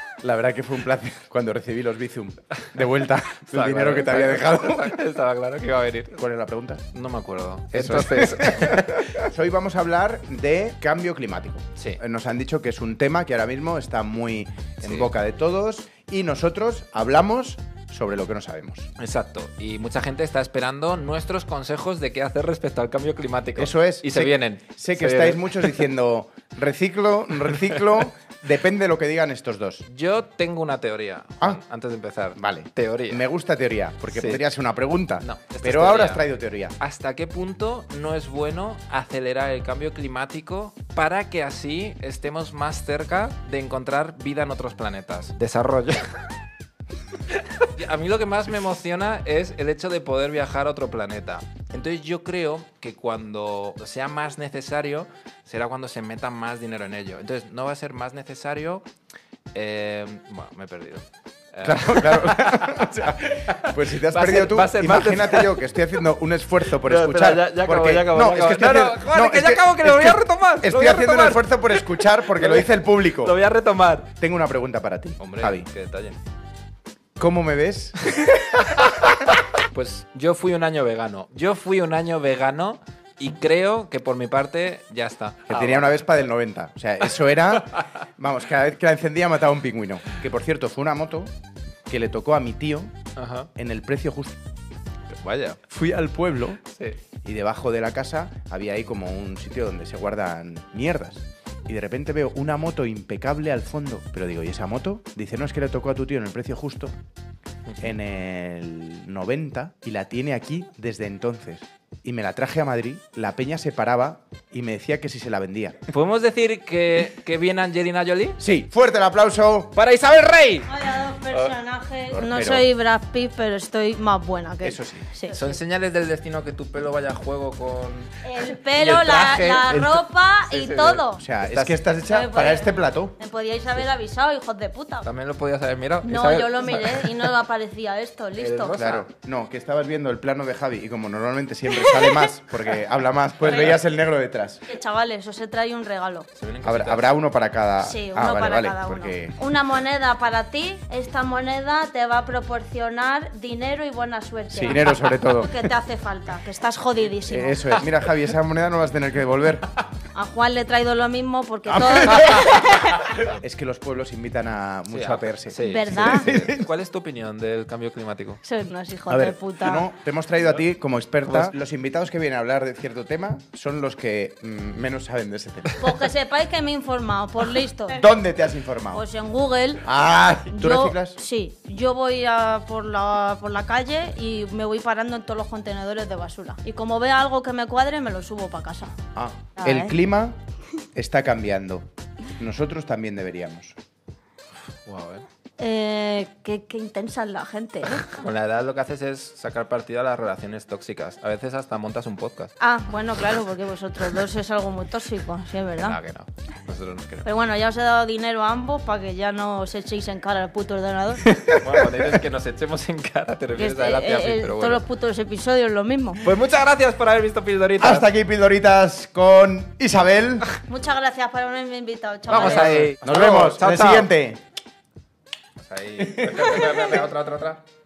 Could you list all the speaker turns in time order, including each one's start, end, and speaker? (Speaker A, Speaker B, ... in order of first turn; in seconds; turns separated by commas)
Speaker A: 0.2-5.0, Speaker B: 3.5-6.2, Speaker A: 6.2-6.8, Speaker B: 6.9-9.2, Speaker A: 7.7-18.9, Speaker B: 14.8-15.1, Speaker B: 19.0-25.8, Speaker A: 23.6-29.8, Speaker B: 29.9-33.2, Speaker A: 32.4-36.8, Speaker B: 34.1-34.4, Speaker B: 35.2-36.2, Speaker B: 36.8-46.0, Speaker B: 47.6-58.8, Speaker B: 59.5-65.7, Speaker A: 61.6-73.3, Speaker B: 66.7-74.1, Speaker A: 74.2-75.7, Speaker B: 75.2-76.2, Speaker A: 77.2-78.8, Speaker B: 78.8-86.0, Speaker A: 85.5-91.3, Speaker A: 91.9-92.9, Speaker B: 93.2-93.5, Speaker A: 93.5-94.4, Speaker B: 95.2-95.6, Speaker A: 95.7-96.6, Speaker A: 97.2-106.9, Speaker A: 107.8-115.8, Speaker B: 115.9-118.4, Speaker A: 118.4-119.7, Speaker B: 119.7-120.7, Speaker C: 120.7-125.6, Speaker A: 122.1-122.7, Speaker A: 124.6-125.0, Speaker B: 125.3-131.8, Speaker C: 128.2-131.2, Speaker A: 131.1-133.2, Speaker C: 132.1-135.1, Speaker B: 135.0-137.3, Speaker C: 136.0-138.8, Speaker B: 138.3-139.1, Speaker A: 138.7-144.6, Speaker C: 144.7-146.3, Speaker B: 146.3-147.1, Speaker A: 146.6-149.5, Speaker C: 147.8-157.8, Speaker A: 154.5-155.6, Speaker A: 157.2-159.7, Speaker C: 160.1-163.0, Speaker A: 161.7-166.7, Speaker B: 164.9-168.4, Speaker C: 165.6-166.3, Speaker C: 168.4-169.8, Speaker A: 169.1-176.0, Speaker B: 171.3-171.5, Speaker C: 175.8-178.0, Speaker A: 177.9-179.0, Speaker C: 178.9-179.8, Speaker A: 179.8-181.2, Speaker C: 180.5-188.9, Speaker A: 189.1-190.3, Speaker C: 189.6-190.0, Speaker A: 190.9-193.8, Speaker B: 194.8-195.2, Speaker C: 195.6-198.1, Speaker B: 198.1-202.5, Speaker C: 202.6-206.0, Speaker B: 205.8-207.2, Speaker C: 207.2-211.2, Speaker B: 211.2-214.8, Speaker A: 211.7-212.1, Speaker C: 213.6-216.3, Speaker B: 216.2-218.1, Speaker A: 217.8-220.4, Speaker C: 220.7-222.9, Speaker B: 222.3-224.1, Speaker A: 222.3-224.4, Speaker B: 225.6-227.6, Speaker A: 226.0-227.0